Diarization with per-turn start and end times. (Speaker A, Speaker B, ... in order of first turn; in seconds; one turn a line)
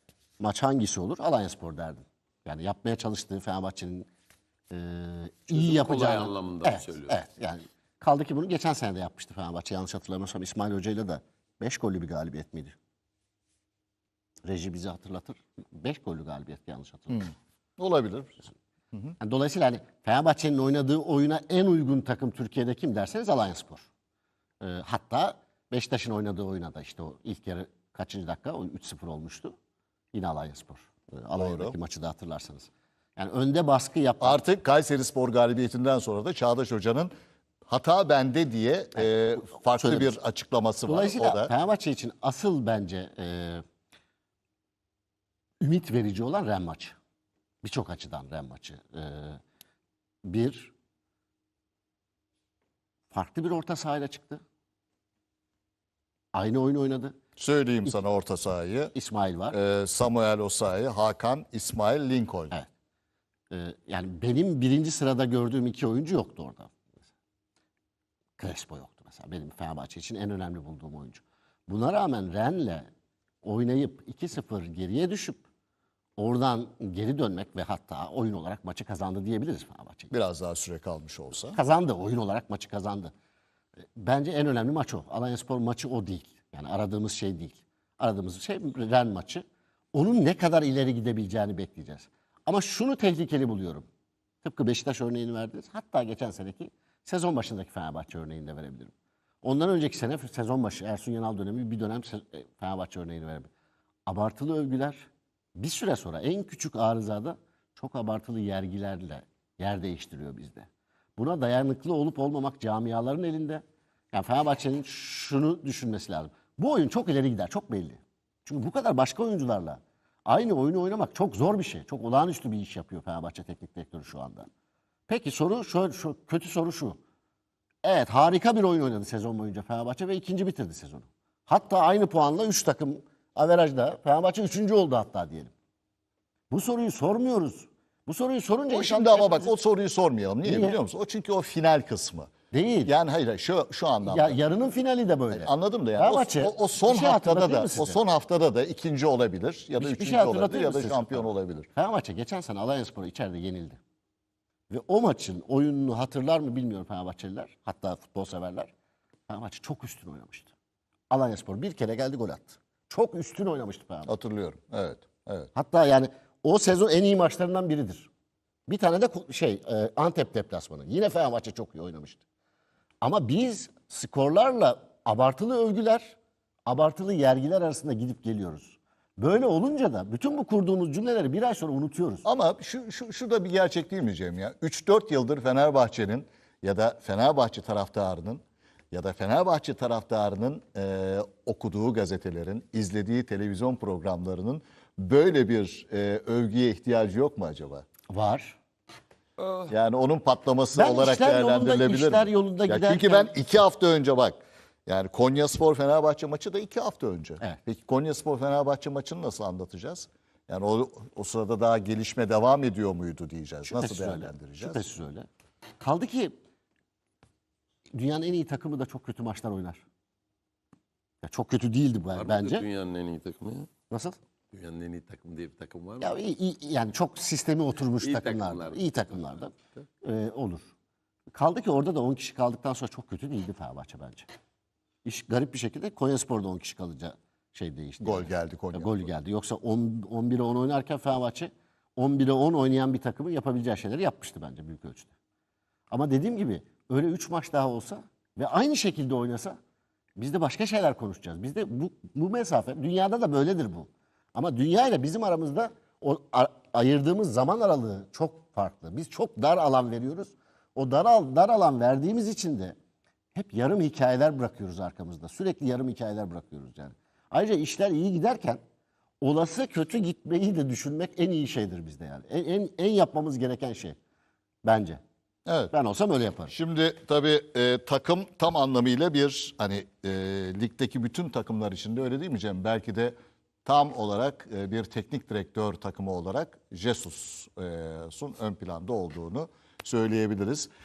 Speaker A: 0.4-4.1
Speaker A: 4.7-12.8
Speaker B: 5.5-7.2
Speaker A: 14.4-17.2
Speaker C: 17.1-19.1
Speaker A: 19.2-23.9
Speaker A: 24.6-29.5
Speaker A: 30.1-34.4
Speaker C: 31.4-31.8
Speaker C: 34.2-37.1
Speaker C: 37.7-41.5
Speaker A: 39.0-40.2
Speaker A: 40.9-43.6
Speaker A: 45.6-47.0
Speaker A: 47.6-49.4
Speaker A: 50.2-50.7
Speaker A: 53.1-54.4
Speaker A: 56.3-57.1
Speaker C: 57.4-58.9
Speaker A: 58.9-59.5
Speaker C: 59.5-62.5
Speaker A: 63.5-67.1
Speaker A: 68.4-72.9
Speaker A: 73.4-75.4
Speaker A: 76.2-80.1
Speaker C: 80.1-81.6
Speaker A: 81.5-83.1
Speaker A: 84.0-93.9
Speaker A: 94.4-103.5
Speaker A: 104.1-124.5
Speaker A: 125.1-127.0
Speaker A: 127.8-135.5
Speaker A: 136.5-139.5
Speaker C: 138.7-142.3
Speaker A: 140.4-140.8
Speaker A: 142.5-142.9
Speaker C: 142.8-144.4
Speaker A: 144.0-148.0
Speaker C: 145.3-151.7
Speaker A: 149.8-153.8
Speaker A: 154.7-158.7
Speaker A: 159.3-160.5
Speaker A: 161.1-164.1
Speaker C: 164.1-165.5
Speaker A: 165.5-168.1
Speaker A: 168.7-172.2
Speaker A: 173.0-182.2
Speaker C: 182.2-197.8
Speaker A: 198.1-198.6
Speaker B: 199.4-199.7
Speaker C: 199.7-214.8
Speaker A: 200.7-203.3
Speaker A: 213.6-215.3
Speaker A: 215.8-216.4
Speaker A: 217.9-219.8
Speaker A: 221.2-222.7
Speaker B: 222.1-223.7
Speaker A: 223.9-224.2
Speaker B: 224.5-226.2
Speaker A: 226.0-230.7
Speaker B: 228.0-229.6
Speaker A: 231.3-234.3
Speaker A: 235.0-245.1
Speaker C: 238.0-239.1
Speaker A: 245.9-249.6
Speaker A: 250.2-262.8
Speaker A: 263.3-268.6
Speaker A: 269.2-274.0
Speaker A: 274.6-275.0
Speaker C: 275.5-275.7
Speaker A: 275.7-276.5
Speaker C: 276.5-290.7